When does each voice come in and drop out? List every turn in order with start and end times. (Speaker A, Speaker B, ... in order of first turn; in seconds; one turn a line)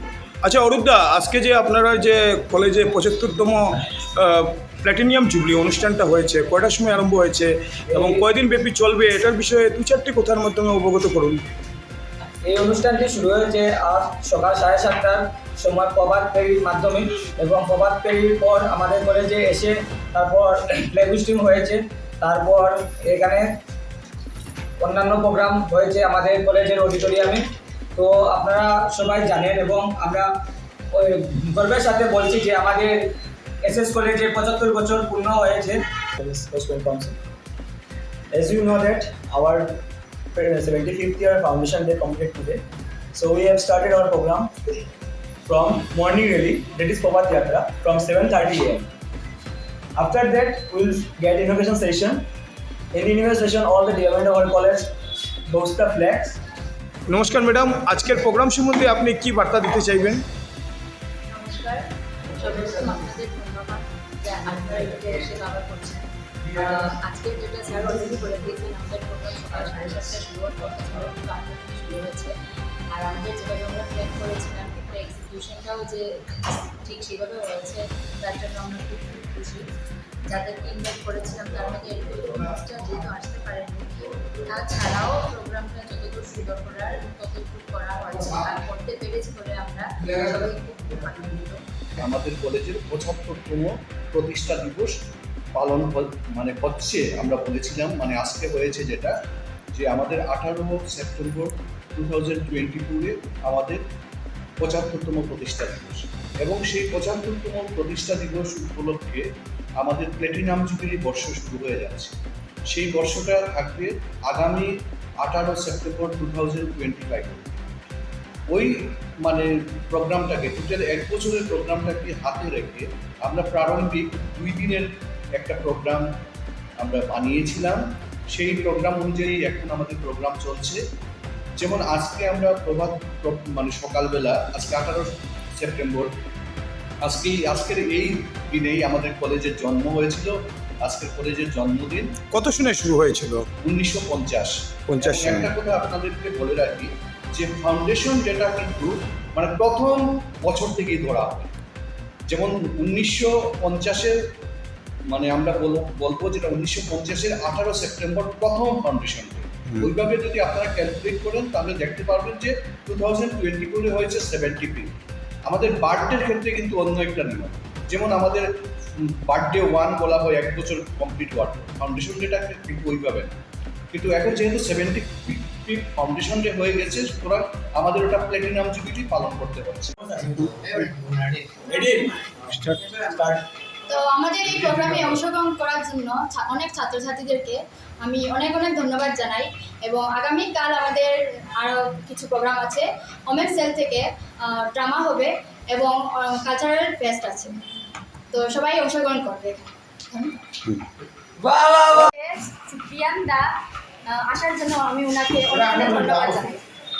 Speaker A: 0.4-11.4
Speaker B: 7.9-8.2
Speaker B: 12.4-23.6
Speaker B: 24.8-30.3
Speaker B: 30.9-35.8
Speaker C: 36.2-37.2
Speaker C: 38.3-39.8
Speaker C: 40.3-42.6
Speaker C: 43.1-44.5
Speaker C: 45.5-48.9
Speaker C: 50.0-52.2
Speaker C: 52.9-54.9
Speaker C: 55.5-56.4
Speaker A: 57.1-60.2
Speaker D: 61.3-72.3
Speaker D: 72.9-79.7
Speaker D: 80.3-83.9
Speaker D: 84.5-91.6
Speaker E: 92.0-94.9
Speaker E: 95.5-99.2
Speaker E: 99.7-103.8
Speaker E: 104.6-109.3
Speaker E: 109.8-112.1
Speaker E: 112.7-117.6
Speaker E: 118.5-126.1
Speaker E: 126.8-130.8
Speaker E: 131.6-136.1
Speaker E: 137.0-142.1
Speaker A: 142.3-143.5
Speaker E: 143.6-151.5
Speaker A: 144.9-145.5
Speaker E: 152.3-154.2
Speaker E: 155.1-164.9
Speaker E: 165.5-173.3
Speaker E: 173.9-179.9
Speaker C: 180.0-182.2
Speaker C: 182.9-183.4
Speaker F: 183.9-197.6
Speaker F: 198.3-200.4
Speaker B: 201.4-202.1
Speaker F: 202.1-203.4
Speaker F: 204.1-206.6